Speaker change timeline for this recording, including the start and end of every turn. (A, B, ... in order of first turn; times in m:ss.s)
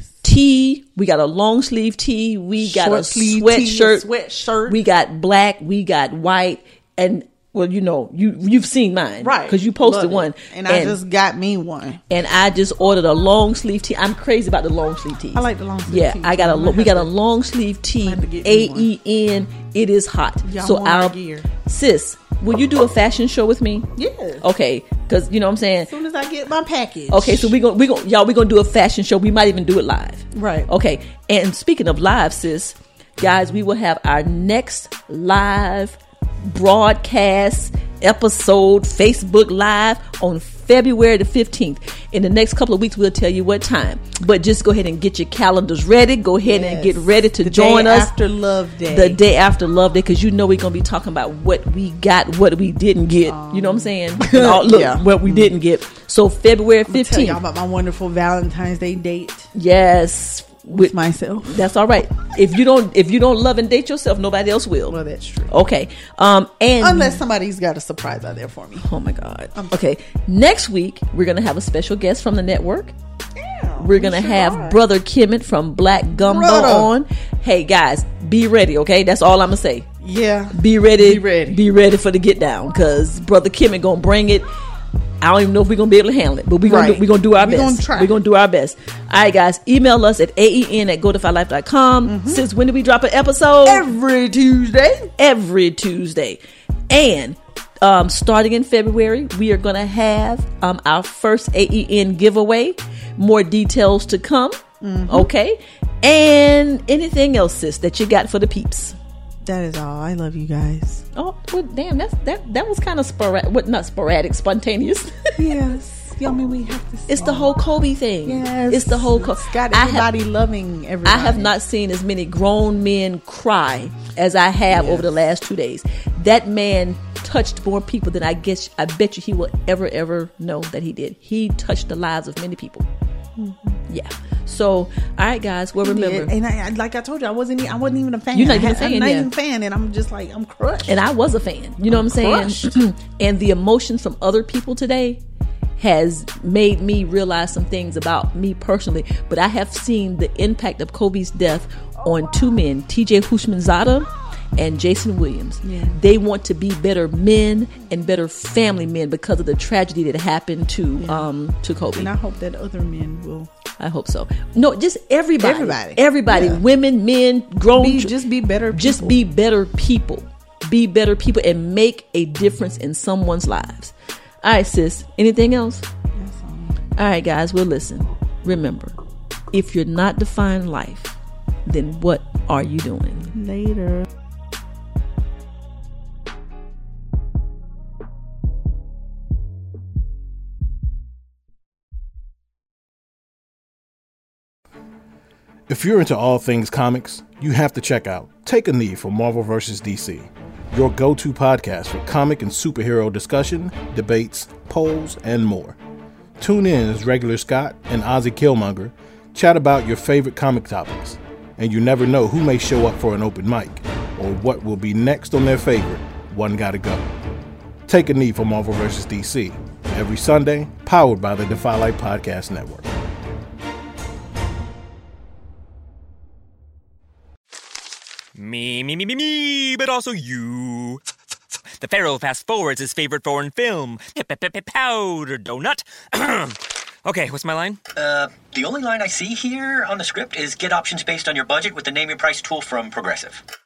0:00.2-0:04.0 A
0:02.6-0:04.8 B
0:04.7-0:11.0 A
0:09.2-0:12.0 B
0:12.1-0:23.9 A
0:15.3-0:17.1 B
0:18.0-0:18.9 B
0:20.4-0:21.5 B
0:23.9-0:24.4 B
0:24.4-0:25.9 A
0:25.9-0:27.6 B
0:27.1-0:48.1 A
0:30.3-0:30.7 B
0:46.4-0:49.2 B
0:48.9-0:57.4 A
0:53.2-0:55.5 B
0:56.8-0:59.5 B
0:59.6-1:05.0 A
1:00.7-1:01.6 B
1:04.9-1:05.5 B
1:05.5-1:07.2 A
1:06.8-1:08.9 B
1:08.8-1:12.9 A
1:13.4-1:14.8 B
1:13.8-1:19.9 A
1:16.1-1:16.9 B
1:20.0-1:21.6 B
1:20.5-1:24.5 A
1:25.2-1:33.8 A
1:26.6-1:28.2 B
1:32.0-1:32.5 B
1:33.6-1:35.1 B
1:35.2-1:49.0 A
1:44.8-1:45.3 B
1:49.4-1:51.0 B
1:51.1-1:55.4 A
1:55.4-1:57.6 B
1:57.1-2:00.1 A
1:58.2-2:01.5 B
2:01.0-2:12.8 A
2:04.7-2:05.1 B
2:13.4-2:13.8 B
2:13.9-2:16.3 A
2:15.8-2:21.0 B
2:18.3-2:19.3 A
2:20.8-2:25.2 A
2:21.9-2:22.7 B
2:25.8-2:42.1 A
2:35.6-2:36.0 B
2:41.0-2:41.3 B
2:41.9-2:43.5 B
2:43.8-2:48.2 A
2:45.4-2:46.6 B
2:47.7-2:49.2 B
2:48.7-2:55.8 A
2:56.1-2:56.8 B
2:57.0-2:59.0 A
2:59.5-3:03.3 A
3:03.3-3:04.0 B
3:15.7-3:25.8 C
3:26.4-3:37.0 C
3:37.9-3:42.9 C
3:48.4-3:51.0 D
3:51.8-3:57.8 D
3:57.9-4:03.4 E